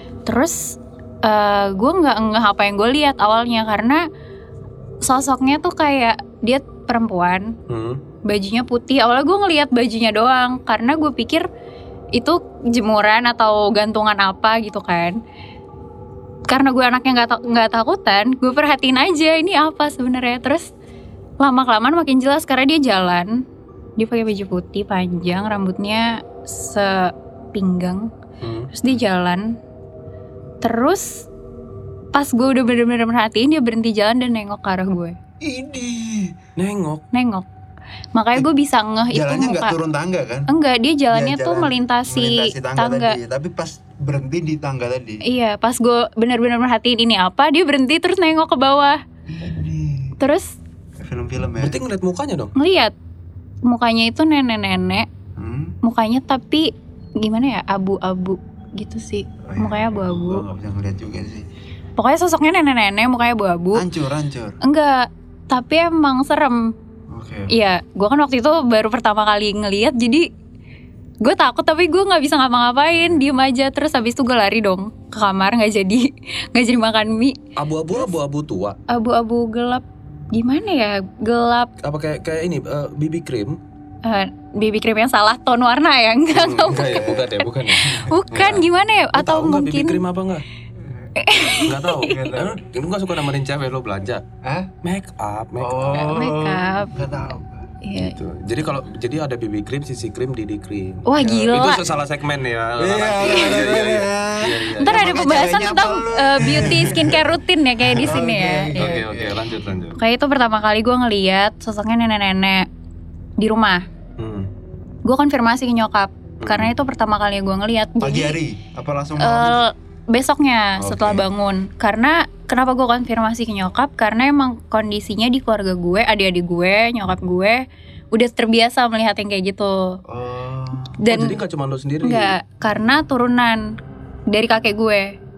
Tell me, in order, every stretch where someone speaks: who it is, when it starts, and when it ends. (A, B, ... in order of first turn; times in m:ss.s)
0:00.2-0:04.0 A
0:05.0-0:07.5 A
0:07.7-0:08.0 B
0:08.2-0:11.5 A
0:12.1-0:15.2 A
0:16.5-0:20.7 A
0:21.4-0:23.4 A
0:24.0-0:28.1 A
0:28.4-0:28.7 B
0:28.7-0:29.6 A
0:30.6-0:31.3 A
0:32.1-0:35.2 A
0:35.4-0:36.3 C
0:36.6-0:37.0 B
0:37.1-0:37.4 A
0:38.1-0:39.7 A
0:39.1-0:40.5 C
0:40.5-0:43.2 A
0:41.1-0:45.2 C
0:45.2-0:49.0 A
0:49.3-0:50.1 C
0:50.2-0:50.5 A
0:51.0-0:51.8 C
0:51.6-0:52.5 B
0:52.6-0:52.9 A
0:53.6-0:55.1 A
0:55.4-0:55.8 C
0:55.8-1:00.5 A
0:59.4-1:01.4 C
1:02.0-1:03.9 A
1:03.7-1:04.6 C
1:04.6-1:06.7 A
1:07.1-1:07.5 C
1:07.5-1:10.3 A
1:11.2-1:17.4 A
1:17.6-1:18.8 B
1:18.9-1:21.7 A
1:21.8-1:23.6 B
1:24.0-1:30.0 A
1:26.3-1:28.6 B
1:26.8-1:28.6 C
1:29.1-1:30.4 B
1:31.2-1:32.3 A
1:31.6-1:34.2 B
1:32.0-1:32.6 C
1:34.4-1:34.7 C
1:34.8-1:36.1 B
1:35.6-1:37.6 C
1:35.9-1:37.0 A
1:37.8-1:38.1 A
1:38.0-1:45.4 B
1:41.0-1:41.8 A
1:41.2-1:41.8 C
1:42.8-1:47.3 C
1:43.2-1:43.5 A
1:44.8-1:49.0 A
1:47.8-1:49.7 C
1:48.8-1:50.0 B
1:50.0-1:52.6 A
1:53.4-1:53.8 A
1:54.2-1:54.5 B
1:55.0-1:58.4 A
1:56.4-1:56.7 B
1:58.0-1:59.6 C
1:59.2-2:10.0 A
2:00.8-2:01.2 C
2:10.1-2:11.0 C
2:11.0-2:11.4 A
2:11.0-2:12.4 B
2:12.0-2:13.6 A
2:14.3-2:15.1 A